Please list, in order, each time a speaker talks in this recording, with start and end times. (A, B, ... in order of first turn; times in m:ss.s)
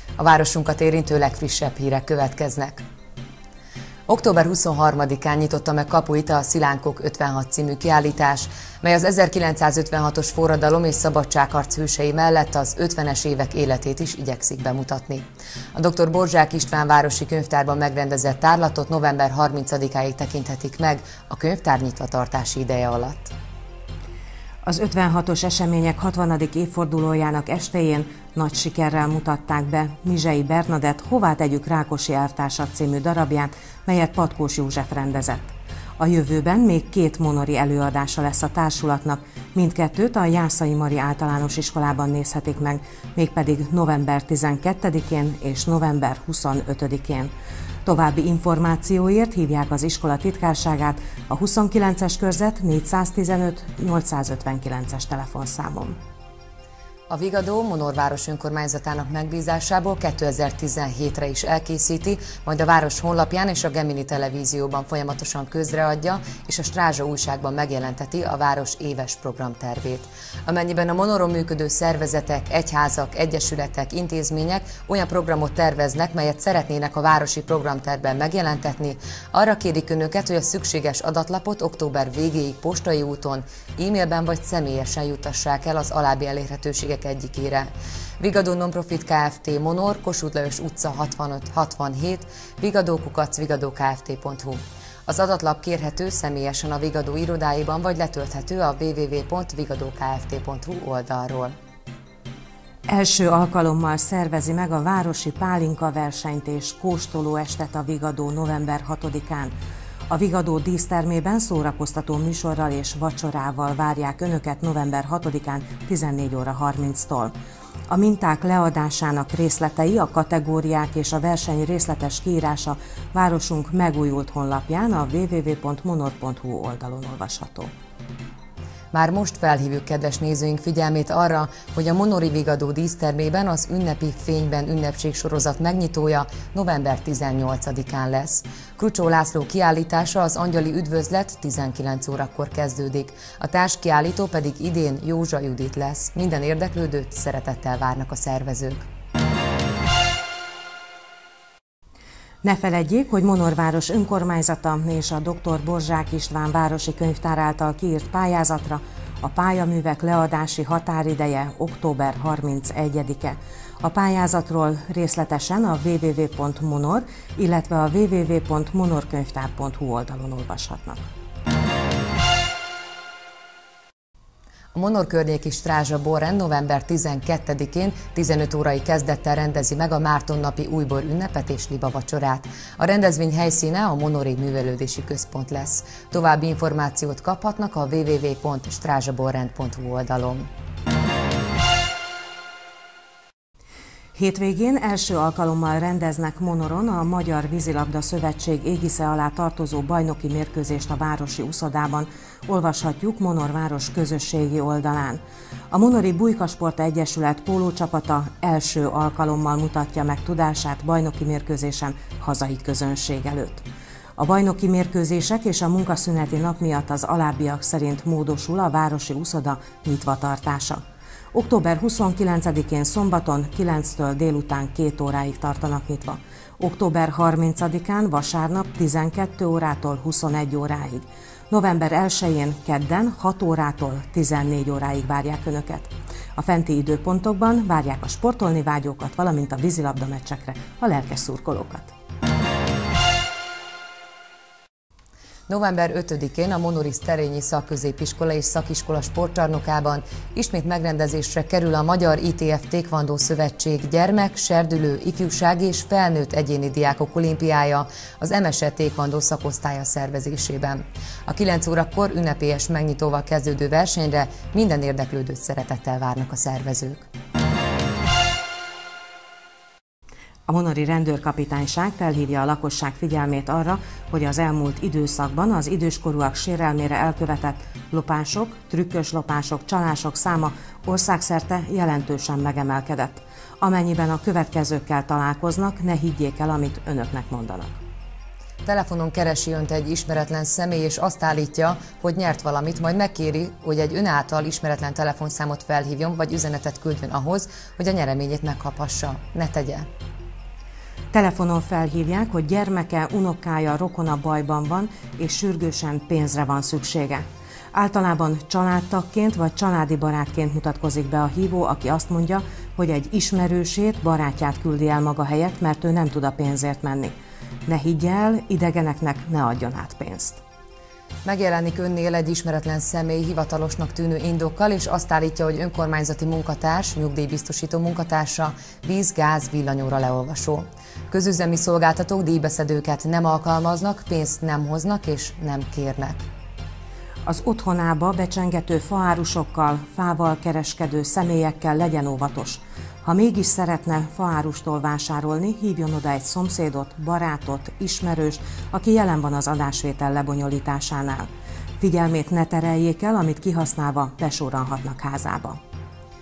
0:00.2-0:02.8 A
0:04.1-0:23.3 A
0:24.6-0:47.3 B
0:47.8-0:56.0 B
0:57.1-1:41.6 A
1:42.9-1:49.5 B
1:50.1-1:57.3 B
1:57.9-2:07.7 B
2:08.9-2:28.9 A
2:32.4-2:51.1 B
2:54.7-3:10.5 A
3:14.1-3:25.2 B
3:25.7-3:33.6 B
3:34.2-4:01.9 B
4:05.5-4:27.1 A
4:30.5-4:47.8 B
4:48.6-4:59.9 A
5:01.1-5:17.1 B
5:17.6-5:20.4 B
5:21.2-5:36.2 A
5:37.2-5:51.3 B
5:51.8-5:55.6 B